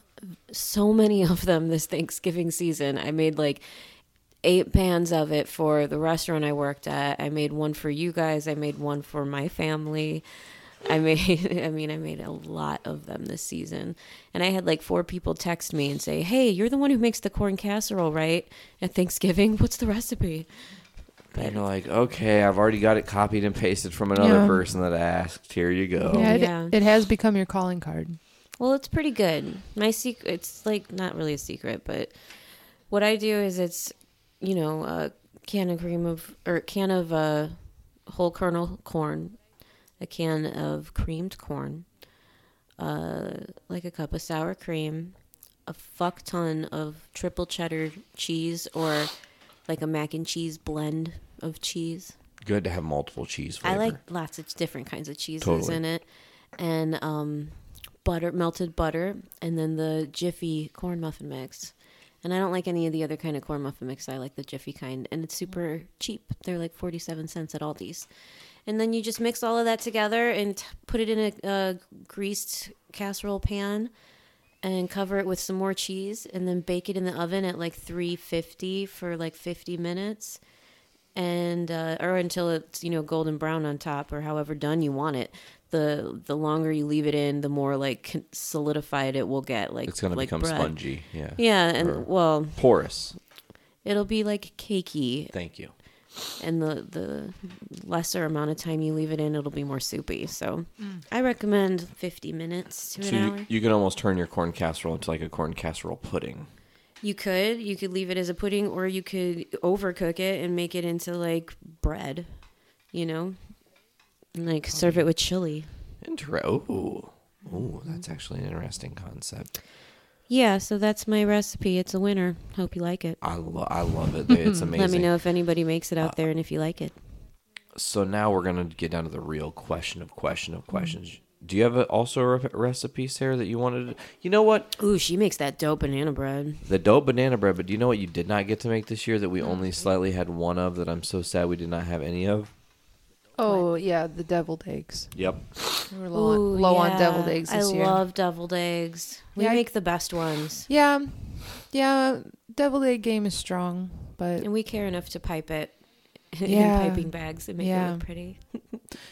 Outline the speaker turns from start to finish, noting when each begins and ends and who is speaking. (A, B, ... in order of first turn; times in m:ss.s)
0:00.2-0:21.6 A
0:21.3-0:26.4 B
0:24.2-0:24.6 C
0:26.0-0:28.2 C
0:26.2-0:26.8 A
0:28.6-0:42.0 A
0:42.8-0:52.2 A
0:52.4-0:54.0 B
0:53.6-1:20.5 A
0:55.4-0:55.8 B
1:21.1-1:33.2 A
1:29.9-1:33.2 B
1:33.8-1:35.4 A
1:35.3-1:35.7 B
1:36.3-1:43.5 A
1:40.8-1:41.0 C
1:43.0-1:46.5 B
1:47.0-1:55.8 A
1:56.0-1:59.6 B
1:57.4-1:58.0 A
2:00.3-2:03.2 A
2:03.2-2:06.2 B
2:04.7-2:07.0 A
2:07.7-2:14.7 B
2:14.8-2:16.7 A
2:16.6-2:22.5 B
2:19.4-2:19.9 A
2:23.4-2:25.3 C
2:25.2-2:25.5 B
2:25.9-2:28.0 C
2:25.9-2:30.7 A
2:29.3-2:30.0 C
2:30.7-2:34.5 C
2:34.4-2:38.9 A
2:36.4-2:38.2 C